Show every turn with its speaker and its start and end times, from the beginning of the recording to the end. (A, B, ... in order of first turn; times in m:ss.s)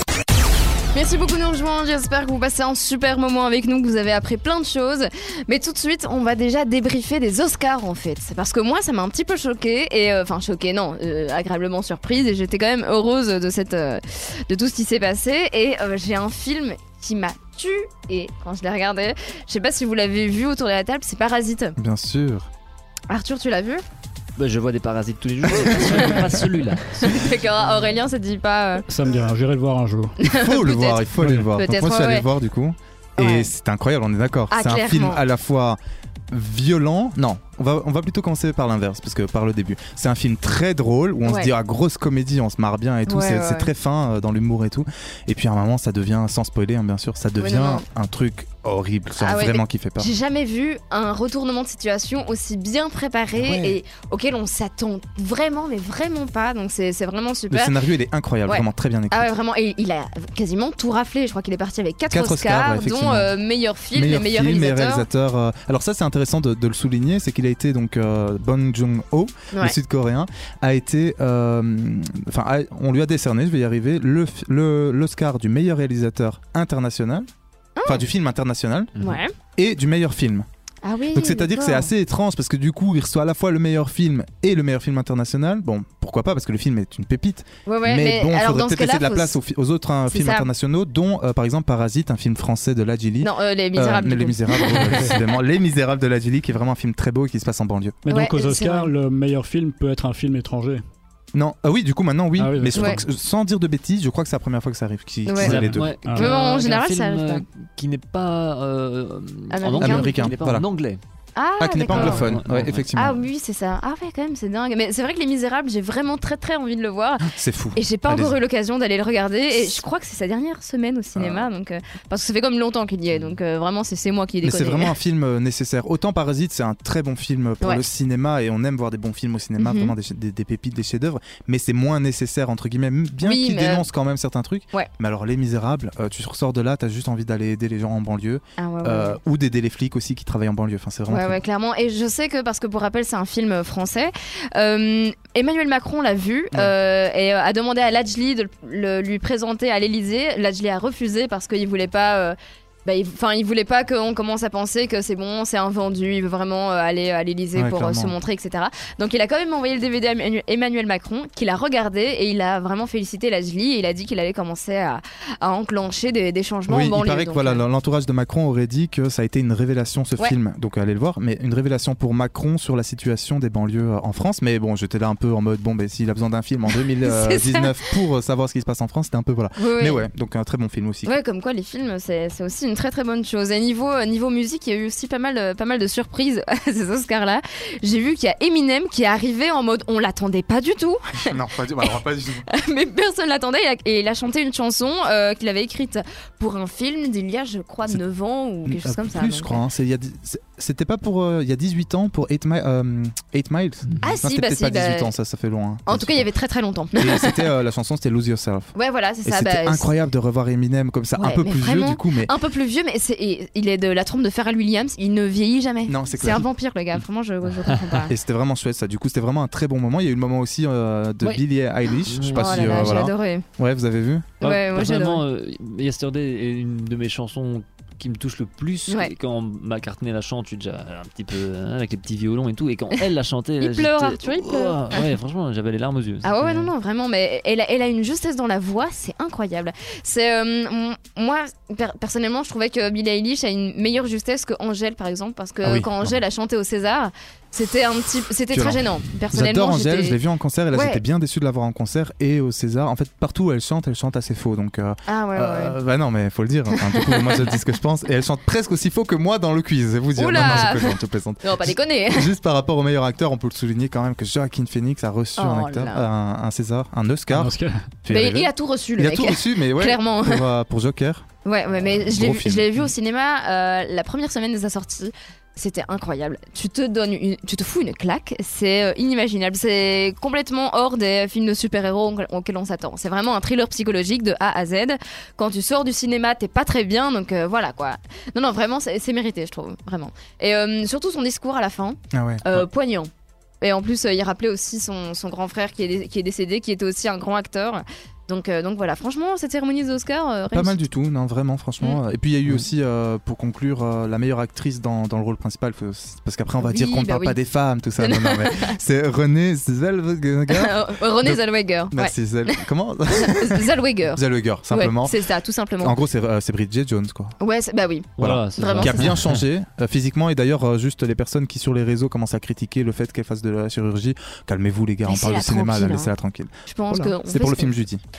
0:00.9-0:21.8 A
0:21.8-0:22.5 B
0:23.1-0:23.8 A
0:24.4-0:27.3 C
0:25.7-0:26.2 A
0:27.0-0:28.9 A
0:28.9-0:30.2 D
0:30.2-0:32.3 A
0:30.3-0:35.8 B
0:33.2-0:33.5 A
0:34.5-0:35.2 A
0:36.3-0:50.1 B
0:41.2-0:41.5 A
0:43.1-0:43.7 A
0:47.4-0:47.8 A
0:49.2-0:57.8 A
0:53.4-0:53.8 B
0:57.5-0:59.3 B
0:58.5-1:05.1 A
1:02.1-1:03.3 B
1:03.9-1:17.3 B
1:09.5-1:09.8 A
1:17.8-1:18.0 A
1:17.8-1:20.5 B
1:19.0-1:19.3 A
1:20.8-1:21.9 A
1:21.1-1:38.0 B
1:27.7-1:29.4 A
1:30.1-1:30.5 A
1:33.2-1:35.2 A
1:38.0-1:40.8 D
1:38.1-1:38.9 A
1:41.3-1:45.9 B
1:42.4-1:43.0 D
1:42.7-1:43.0 A
1:45.2-1:47.4 A
1:45.4-1:46.3 D
1:45.5-1:51.0 C
1:49.5-1:50.2 A
1:49.8-1:50.6 B
1:51.4-1:52.3 A
1:51.6-1:53.3 B
1:51.9-1:52.9 C
1:52.9-2:05.0 A
1:57.2-1:58.4 B
2:01.2-2:01.5 B
2:04.4-2:21.4 B
2:09.6-2:10.0 A
2:13.2-2:13.9 A
2:18.6-2:19.2 A
2:21.1-2:47.6 A
2:37.6-2:38.2 B
2:46.7-3:01.2 B
2:56.8-2:57.8 A
2:59.6-3:00.1 A
3:01.0-3:11.3 A
3:11.2-3:12.4 B
3:12.5-3:19.6 A
3:18.6-3:26.3 B
3:24.0-3:25.2 A
3:25.9-3:27.5 A
3:27.0-3:32.3 B
3:28.7-3:29.9 A
3:31.2-3:38.2 A
3:35.9-3:36.5 B
3:38.1-3:44.4 B
3:42.0-3:43.0 C
3:42.3-3:43.5 A
3:44.4-3:45.2 A
3:44.4-3:56.7 C
3:48.9-3:49.1 A
3:53.6-3:55.1 A
3:56.2-4:10.2 A
4:05.6-4:06.2 B
4:08.5-4:27.5 B
4:10.7-4:11.0 A
4:15.1-4:15.8 A
4:16.7-4:17.5 A
4:20.2-4:22.3 A
4:25.4-4:26.1 A
4:27.3-4:27.8 D
4:28.0-4:31.3 B
4:28.1-4:30.5 A
4:31.4-4:53.1 A
4:31.9-4:32.8 B
4:52.1-4:52.7 B
4:53.6-5:00.8 A
5:00.5-5:15.2 B
5:06.6-5:07.4 A
5:08.0-5:08.8 A
5:10.5-5:16.0 A
5:15.8-5:17.4 B
5:17.4-5:19.1 A
5:18.2-5:19.4 C
5:18.2-5:28.0 B
5:25.0-5:26.1 A
5:26.7-5:27.8 A